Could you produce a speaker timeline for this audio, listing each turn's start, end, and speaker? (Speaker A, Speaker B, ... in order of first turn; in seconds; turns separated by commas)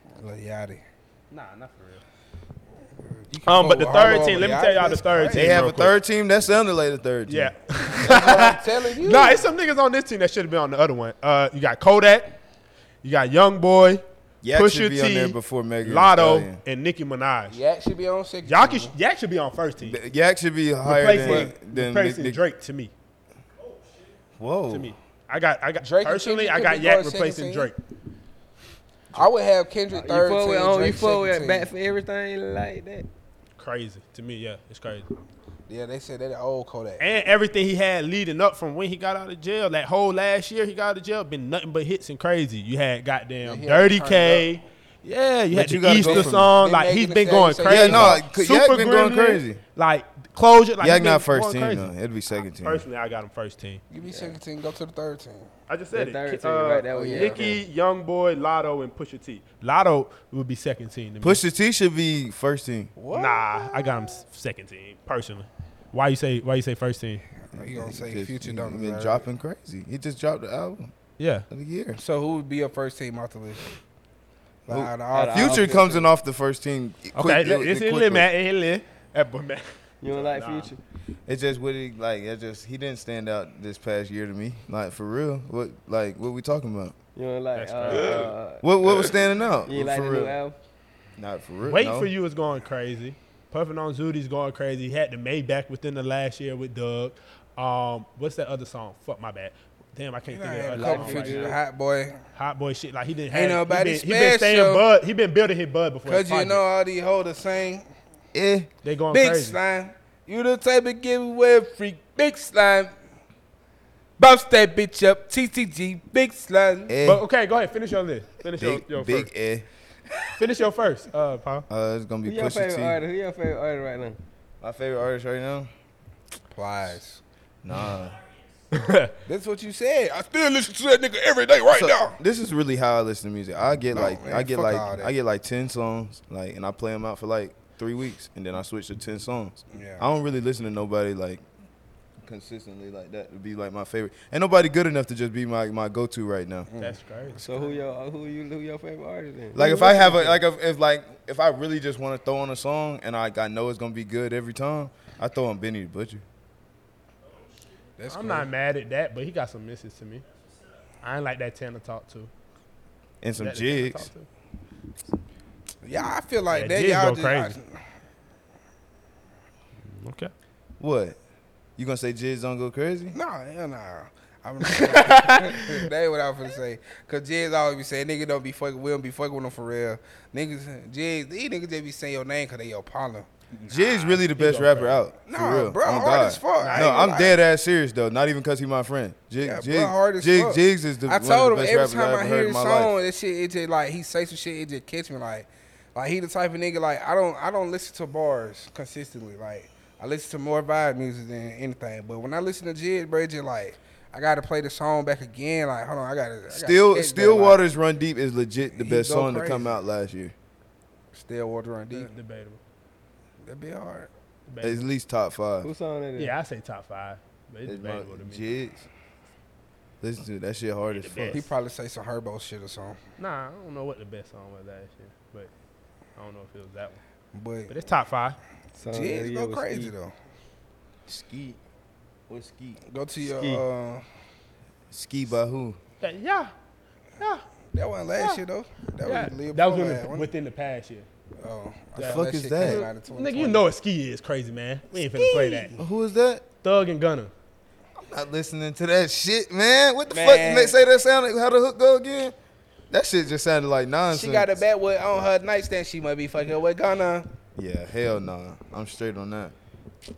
Speaker A: 0.2-0.8, Speaker B: 1.3-2.0, Speaker A: 3.3-5.5, Speaker B: 3.5-6.0, Speaker C: 5.3-7.5, Speaker B: 7.3-12.4, Speaker A: 8.0-9.5, Speaker B: 13.0-17.6, Speaker C: 14.4-16.6, Speaker A: 17.5-18.9, Speaker B: 18.4-20.0, Speaker C: 19.8-22.4, Speaker B: 20.8-22.9, Speaker C: 24.4-24.9, Speaker B: 24.7-27.8, Speaker A: 25.8-27.7, Speaker A: 29.1-31.7, Speaker D: 29.9-33.1, Speaker B: 33.6-35.1, Speaker A: 35.7-37.0, Speaker B: 37.0-51.9, Speaker A: 43.4-44.5, Speaker C: 45.5-46.5, Speaker A: 46.0-48.2, Speaker C: 47.6-49.6, Speaker C: 50.8-52.8, Speaker B: 52.6-53.8, Speaker A: 53.9-55.5, Speaker B: 55.7-61.4, Speaker D: 55.9-57.6, Speaker A: 57.1-57.4, Speaker C: 61.2-62.9, Speaker A: 63.0-63.9, Speaker B: 63.1-67.2, Speaker A: 67.5-69.2, Speaker C: 67.5-70.9, Speaker B: 71.2-71.5, Speaker C: 71.5-72.0, Speaker A: 72.0-73.7, Speaker A: 74.7-75.9, Speaker C: 74.7-78.2, Speaker D: 75.1-76.1, Speaker B: 77.1-80.7, Speaker D: 80.0-80.8, Speaker C: 81.3-86.9, Speaker D: 87.2-90.6, Speaker B: 87.5-88.3, Speaker C: 87.9-90.3, Speaker C: 91.2-92.1, Speaker B: 91.6-101.5, Speaker A: 100.3-102.2, Speaker D: 100.7-101.6, Speaker B: 102.3-106.6, Speaker A: 103.3-104.8, Speaker A: 106.0-107.8, Speaker C: 108.3-108.7, Speaker B: 108.8-109.6, Speaker A: 109.1-112.9, Speaker A: 114.2-116.9, Speaker C: 116.9-117.2, Speaker B: 117.0-119.3, Speaker C: 118.6-119.7, Speaker B: 120.4-121.7, Speaker C: 121.7-123.0, Speaker D: 122.2-124.2, Speaker C: 124.6-125.7, Speaker A: 126.5-127.2, Speaker C: 127.6-128.2, Speaker B: 128.7-129.1, Speaker A: 129.2-132.2, Speaker C: 131.7-141.4, Speaker A: 133.9-135.1, Speaker A: 139.7-140.0, Speaker C: 142.2-146.7, Speaker A: 146.7-147.0, Speaker B: 146.8-147.8, Speaker D: 147.4-149.6, Speaker C: 149.5-156.2, Speaker B: 149.6-150.4, Speaker A: 158.0-158.5, Speaker B: 158.1-160.2, Speaker B: 161.0-162.3, Speaker C: 163.2-164.1, Speaker B: 163.4-164.3, Speaker A: 165.8-167.8, Speaker B: 166.5-167.6, Speaker B: 169.8-170.3, Speaker C: 170.8-171.2, Speaker C: 171.8-173.1, Speaker A: 173.1-183.3, Speaker B: 174.7-175.9, Speaker B: 183.5-185.0, Speaker C: 183.7-192.9, Speaker A: 185.2-187.4, Speaker B: 186.6-187.1, Speaker A: 189.4-207.6, Speaker C: 206.5-210.3, Speaker A: 208.7-209.8, Speaker A: 211.1-212.1, Speaker B: 211.9-212.6, Speaker A: 213.4-214.1, Speaker B: 214.5-214.9, Speaker C: 214.6-215.7, Speaker D: 215.6-216.3, Speaker B: 216.2-218.5, Speaker C: 217.7-218.9, Speaker C: 220.0-221.4, Speaker B: 220.8-221.5, Speaker A: 221.3-223.0, Speaker B: 223.2-225.5, Speaker B: 226.2-227.0, Speaker A: 227.3-227.8, Speaker B: 227.7-228.4, Speaker D: 228.8-229.9, Speaker A: 228.9-230.1, Speaker C: 231.1-231.6, Speaker C: 232.3-232.8, Speaker A: 232.8-234.0, Speaker D: 233.2-233.6, Speaker C: 234.9-235.8, Speaker B: 236.0-236.5, Speaker A: 237.7-240.3, Speaker B: 239.0-241.1, Speaker A: 241.4-243.6, Speaker C: 242.0-242.9, Speaker B: 242.0-245.7, Speaker A: 245.1-245.8, Speaker C: 245.8-246.4, Speaker B: 246.6-247.3, Speaker C: 248.0-252.3, Speaker A: 250.1-250.8, Speaker C: 252.9-254.6, Speaker A: 254.1-257.3, Speaker C: 257.5-259.5